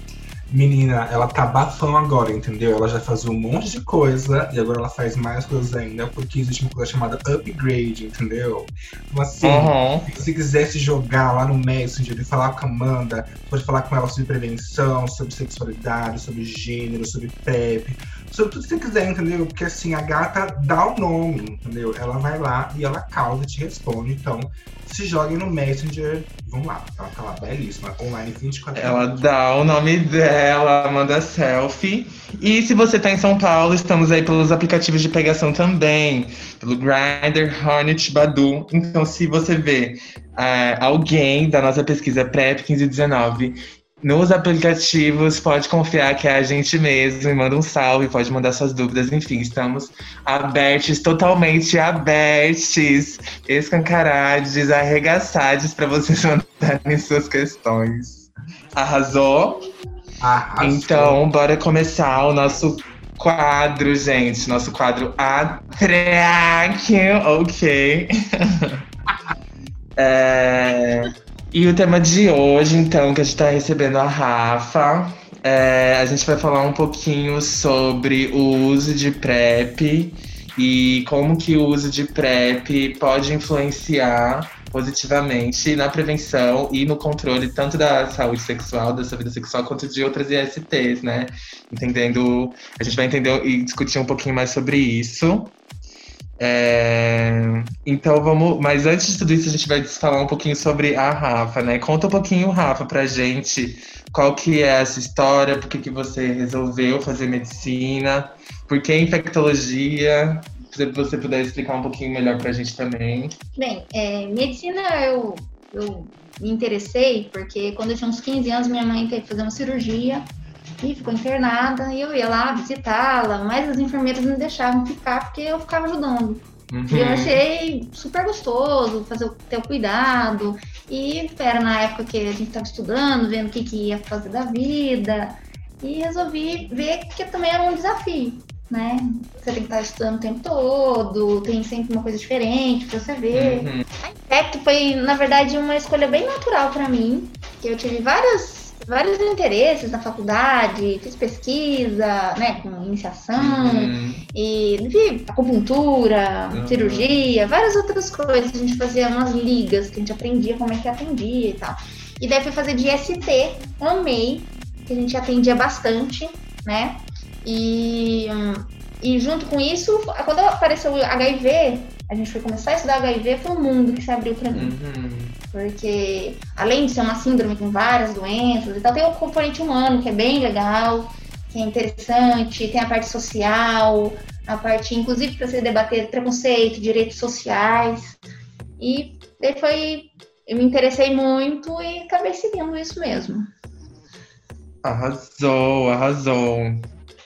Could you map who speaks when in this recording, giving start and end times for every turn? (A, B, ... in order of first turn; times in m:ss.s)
0:00.5-0:29.2 A
0:09.4-0:10.1 B
0:28.8-0:59.7 B
1:00.2-1:01.2 A
1:00.6-1:08.8 B
1:10.0-1:35.6 B
1:36.4-1:53.4 B
1:53.6-2:00.3 C
2:00.8-2:54.8 C
2:06.7-2:07.4 B
2:23.3-2:23.8 B
2:33.4-2:34.2 B
2:36.5-2:37.2 B
2:54.5-2:55.4 B
2:55.5-3:08.2 C
3:08.8-3:13.5 C
3:14.8-3:16.9 B